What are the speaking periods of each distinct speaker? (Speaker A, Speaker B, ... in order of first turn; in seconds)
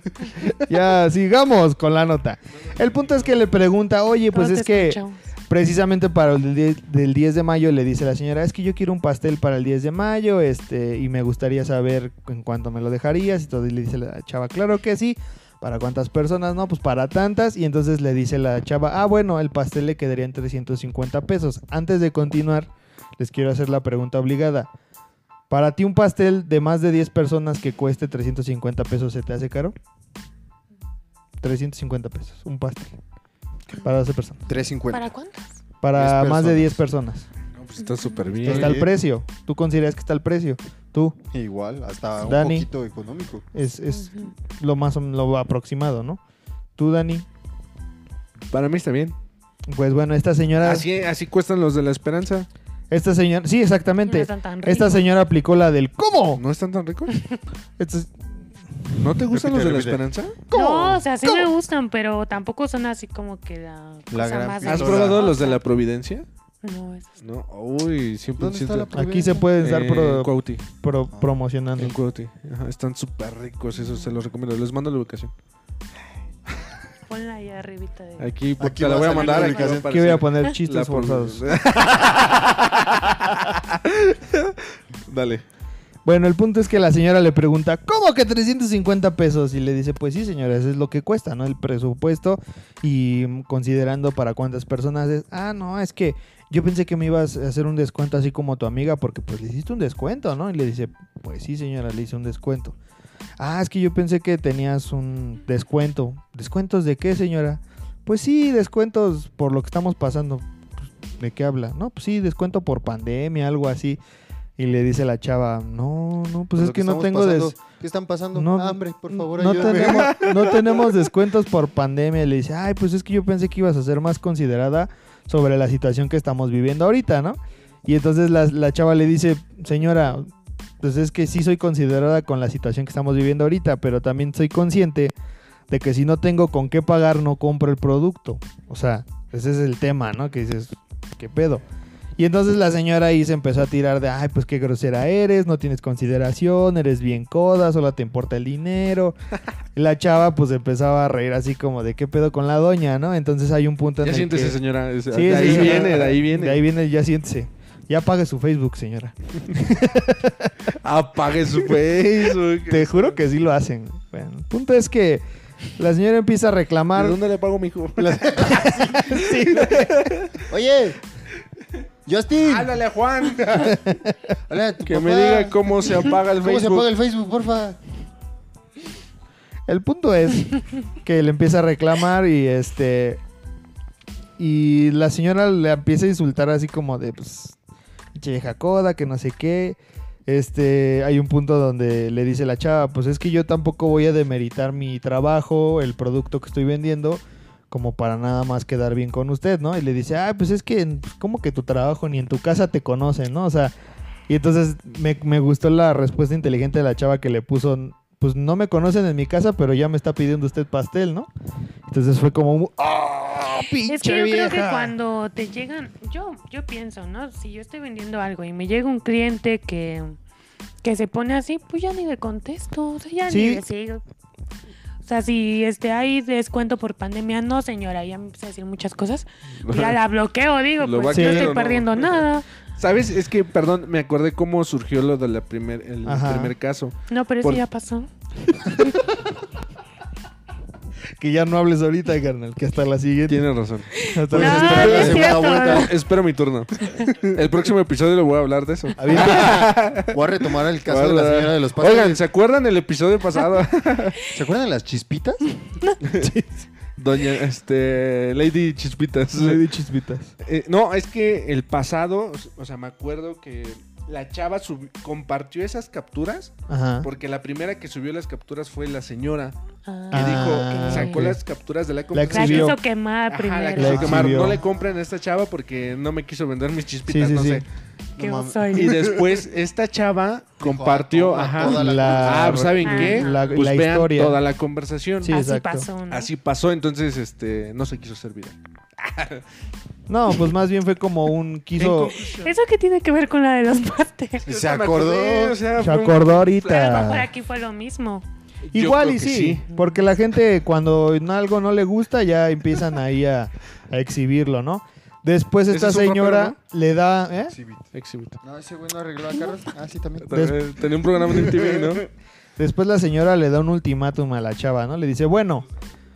Speaker A: 0.4-5.0, 5.5-24.7, 25.5-29.7, 31.4-33.0, 33.8-34.4, 35.8-37.3, 38.4-41.2, 42.2-42.7, 43.5-46.2, 46.8-47.2, 49.7-50.9, 52.9-56.4, 57.8-58.3, 60.5-61.5, 68.9-72.0, 79.9-81.4, 86.0-102.8, 103.4-114.0, 114.6-117.6, 118.3-135.1, 135.7-141.6, 142.2-149.1, 149.7-154.6, 155.1-160.7, 162.7-165.2, 165.8-167.2, 168.5-170.1, 179.7-183.2, 184.4-187.6, 188.1-203.7, 204.3-211.3, 211.9-214.9, 223.3-223.6, 231.1-231.5, 236.0-236.5, 241.2-243.5, 244.1-245.2, 249.0-249.7, 256.2-256.5, 259.3-260.3, 266.7-267.1, 270.1-271.4, 272.1-272.8, 273.8-274.6, 277.1-277.6, 281.6-284.4, 285.2-285.9, 290.1-292.1, 295.8-297.3, 298.7-307.5, 310.3-310.6, 312.6-315.6
Speaker B: 4.3-5.2, 34.9-35.6, 43.9-44.3, 54.0-55.0, 57.1-57.4, 60.5-65.6, 66.6-67.2, 73.8-74.1, 77.1-78.3, 79.2-79.8, 213.9-220.2, 220.8-224.0, 225.0-232.4, 237.1-238.1, 243.9-245.9, 269.9-271.2, 272.3-274.2, 278.2-279.0, 282.8-283.3, 285.3-286.3, 292.4-294.4, 296.6-298.2, 299.7-299.9
Speaker C: 34.5-35.1, 35.9-36.8, 38.4-38.9, 41.3-43.5, 59.3-60.0, 64.1-65.3, 68.4-69.5, 78.6-79.9, 116.6-120.6, 155.5-155.9, 168.0-169.1, 170.5-171.0, 172.1-172.8, 174.5-177.8, 244.3-245.9, 249.2-252.2, 254.3-255.6, 273.9-274.5, 278.1-279.4, 280.6-283.1, 294.4-295.6, 307.5-307.9, 308.4-310.3, 311.2-312.1
Speaker D: 37.6-38.8, 48.5-49.1, 50.6-52.5, 56.4-57.1, 59.0-60.4, 64.6-66.2, 67.2-68.9, 69.6-70.6, 71.8-75.3, 78.2-85.4, 119.6-120.9, 154.0-156.6, 160.8-163.2, 166.9-170.4, 172.4-173.8, 174.8-176.9, 229.6-230.0, 230.8-232.2, 232.8-237.6, 243.3-243.9, 244.6-254.2, 256.0-256.3, 257.0-259.6, 260.4-269.6, 270.1-277.6, 278.7-285.3, 286.1-289.4, 291.8-292.5, 294.4-297.0, 298.7-299.6, 305.7-306.6, 307.9-308.4, 310.2-312.1